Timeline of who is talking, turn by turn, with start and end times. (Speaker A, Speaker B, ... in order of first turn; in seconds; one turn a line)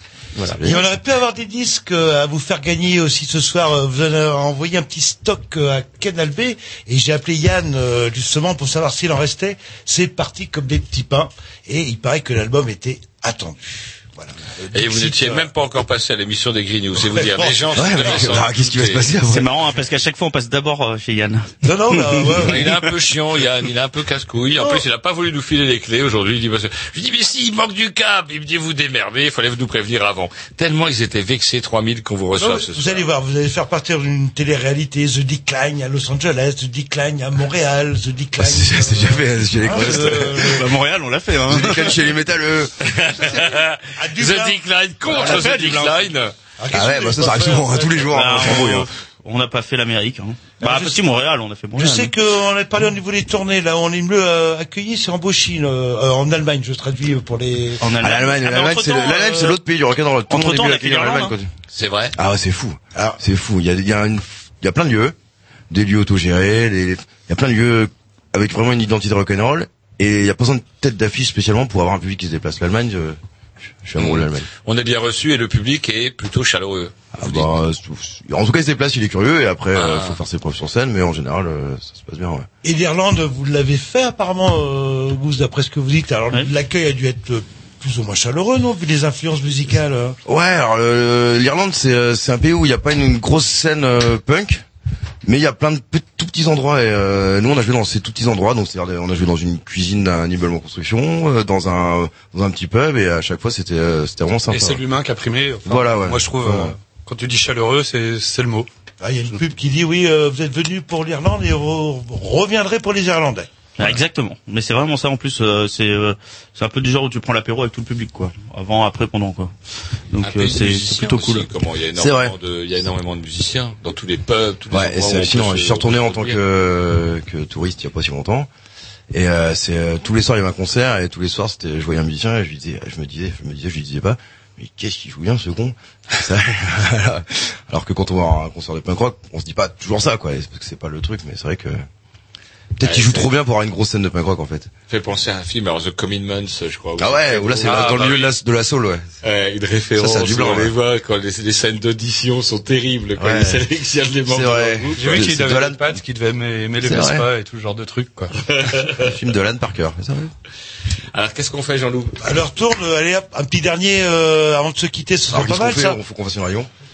Speaker A: 0.3-0.9
Speaker B: 0.6-15.5
Speaker C: 14.7-19.1
Speaker B: 16.9-18.3
Speaker A: 17.8-19.6
Speaker D: 19.2-22.3
Speaker B: 21.6-22.9
Speaker C: 22.4-33.0
Speaker B: 24.6-24.8
Speaker B: 32.4-40.7
Speaker A: 38.4-40.7
Speaker D: 40.5-41.9
Speaker A: 41.5-42.7
Speaker C: 42.9-46.3
Speaker B: 44.0-45.8
Speaker D: 45.2-46.0
Speaker B: 46.6-48.6
Speaker A: 46.7-48.9
Speaker D: 48.1-52.1
Speaker B: 50.6-51.0
Speaker B: 51.8-57.9
Speaker D: 57.8-59.6
Speaker A: 58.0-61.5
Speaker D: 60.3-61.3
Speaker C: 61.7-62.1
Speaker A: 62.1-65.2
Speaker A: 65.7-73.2
Speaker A: 73.8-74.5
Speaker C: 74.0-77.5
Speaker A: 77.1-82.5
Speaker C: 79.8-80.2
Speaker B: 82.6-90.2
Speaker A: 90.3-94.6
Speaker A: 95.2-104.8
Speaker E: 104.5-108.7
Speaker A: 105.6-106.7
Speaker B: 109.0-113.7
Speaker D: 113.8-119.5
Speaker D: 120.1-121.5
Speaker C: 120.2-126.4
Speaker A: 122.0-122.3
Speaker A: 124.7-128.5
Speaker A: 129.1-141.8
Speaker A: 142.8-144.7
Speaker C: 142.8-143.3
Speaker C: 144.9-148.3
Speaker A: 147.0-149.1
Speaker C: 149.2-155.2
Speaker A: 150.0-150.7
Speaker A: 153.2-153.6
Speaker A: 154.2-156.0
Speaker E: 154.9-158.3
Speaker A: 156.8-157.3
Speaker C: 158.5-159.1
Speaker A: 159.0-160.3
Speaker C: 161.1-162.2
Speaker B: 162.2-166.0
Speaker A: 165.3-166.7